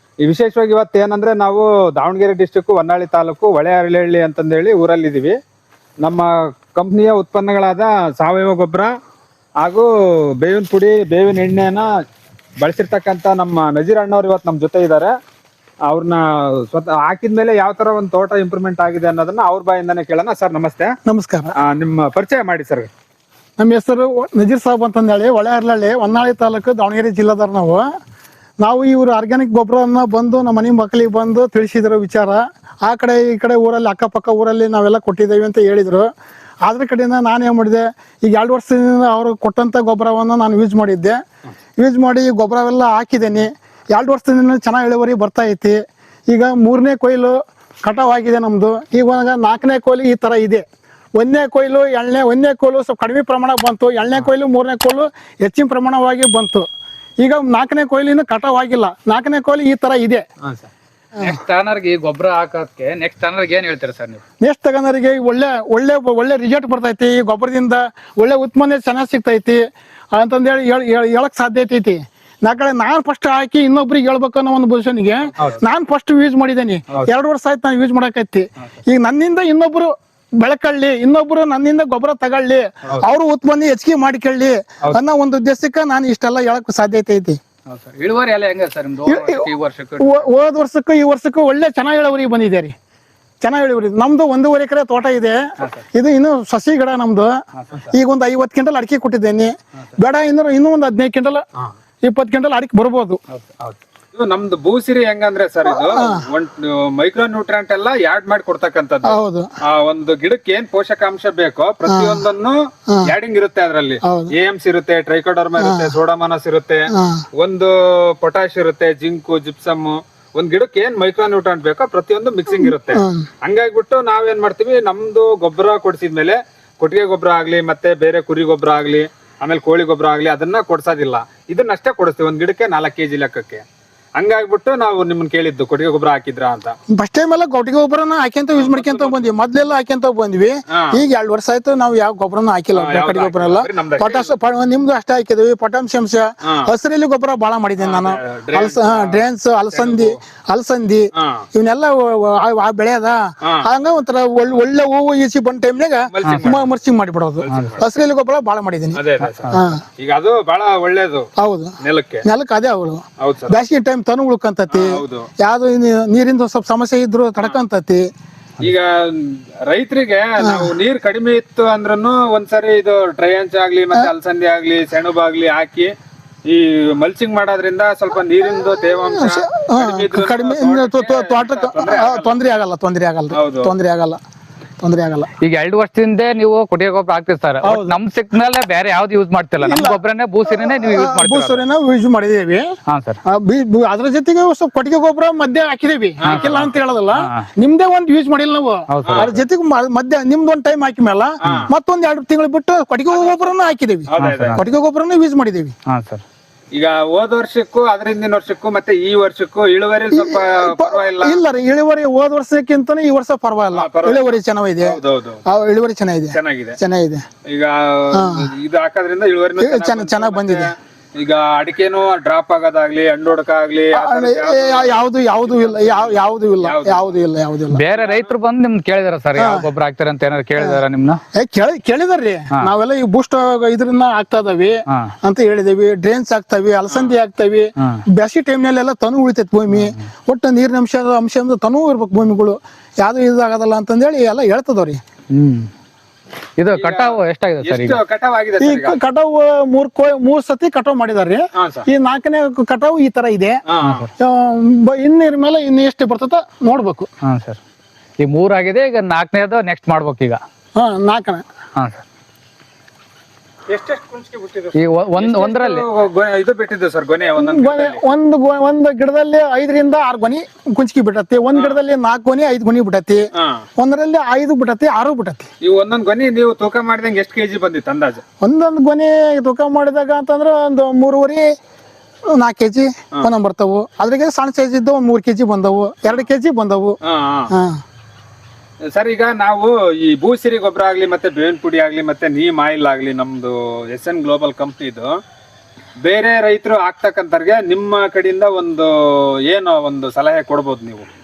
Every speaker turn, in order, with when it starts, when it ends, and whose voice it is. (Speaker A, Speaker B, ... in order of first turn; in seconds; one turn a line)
Speaker A: 0.2-5.4
Speaker A: 6.0-8.9
Speaker A: 9.6-9.9
Speaker A: 10.4-11.9
Speaker A: 12.6-15.1
Speaker A: 15.9-20.9
Speaker B: 21.1-21.5
Speaker A: 21.6-22.9
Speaker B: 23.6-27.8
Speaker B: 28.6-36.1
Speaker B: 36.6-41.2
Speaker B: 41.8-45.8
Speaker B: 46.3-50.6
Speaker B: 51.2-56.6
Speaker B: 57.2-60.2
Speaker C: 61.2-64.2
Speaker B: 64.4-69.6
Speaker B: 70.1-87.4
Speaker C: 87.7-90.2
Speaker B: 89.0-92.7
Speaker B: 93.4-97.3
Speaker B: 97.9-101.4
Speaker B: 102.0-103.2
Speaker A: 103.6-133.6
Speaker B: 105.7-106.2
Speaker B: 109.0-109.5
Speaker B: 111.8-112.2
Speaker B: 114.0-114.3
Speaker B: 115.6-115.9
Speaker B: 116.9-117.2
Speaker B: 122.5-123.2
Speaker A: 134.2-136.7
Speaker B: 136.9-159.8
Speaker A: 138.5-139.3
Speaker A: 140.7-141.0
Speaker A: 142.7-144.3
Speaker A: 147.8-149.2
Speaker A: 149.7-150.2
Speaker A: 151.2-151.4
Speaker A: 156.1-156.7
Speaker C: 156.2-156.5
Speaker A: 157.4-157.9
Speaker C: 157.5-157.8
Speaker A: 158.9-161.3
Speaker C: 159.2-159.6
Speaker B: 161.4-168.1
Speaker A: 161.8-162.2
Speaker A: 163.2-163.6
Speaker A: 164.7-165.3
Speaker A: 168.6-175.9
Speaker B: 170.4-170.7
Speaker A: 176.5-182.4
Speaker B: 179.1-184.2
Speaker A: 183.3-183.7
Speaker B: 184.8-185.3
Speaker C: 185.4-191.6
Speaker B: 187.6-188.0
Speaker B: 189.6-192.7
Speaker C: 192.9-193.2
Speaker B: 193.2-205.7
Speaker A: 196.2-196.7
Speaker C: 196.2-197.5
Speaker C: 198.9-199.3
Speaker A: 199.1-199.3
Speaker A: 204.1-204.6
Speaker C: 204.2-204.6
Speaker C: 205.9-206.2
Speaker A: 206.7-211.4
Speaker B: 210.1-217.2
Speaker A: 213.7-214.2
Speaker A: 214.8-215.4
Speaker A: 216.3-216.8
Speaker A: 217.5-227.2
Speaker B: 218.1-218.5
Speaker B: 219.6-220.7
Speaker B: 223.9-227.8
Speaker C: 227.7-231.2
Speaker A: 227.9-228.3
Speaker B: 229.3-229.7
Speaker B: 230.6-230.8
Speaker B: 231.3-245.0
Speaker A: 236.9-237.2
Speaker C: 237.8-238.0
Speaker C: 245.3-245.7
Speaker C: 246.6-248.0
Speaker A: 246.8-249.0
Speaker B: 248.6-253.6
Speaker A: 251.6-251.8
Speaker A: 253.7-254.1
Speaker C: 253.8-254.1
Speaker B: 254.2-257.1
Speaker C: 257.2-257.6
Speaker C: 258.2-260.4
Speaker B: 260.8-261.4
Speaker C: 261.8-262.0
Speaker A: 263.7-268.0
Speaker C: 264.7-265.9
Speaker B: 267.4-273.2
Speaker A: 273.4-273.6
Speaker B: 273.8-275.5
Speaker A: 275.6-278.2
Speaker B: 278.4-281.4
Speaker B: 282.4-286.9
Speaker A: 287.0-287.5
Speaker B: 287.5-287.8
Speaker A: 288.9-295.1
Speaker A: 296.0-301.1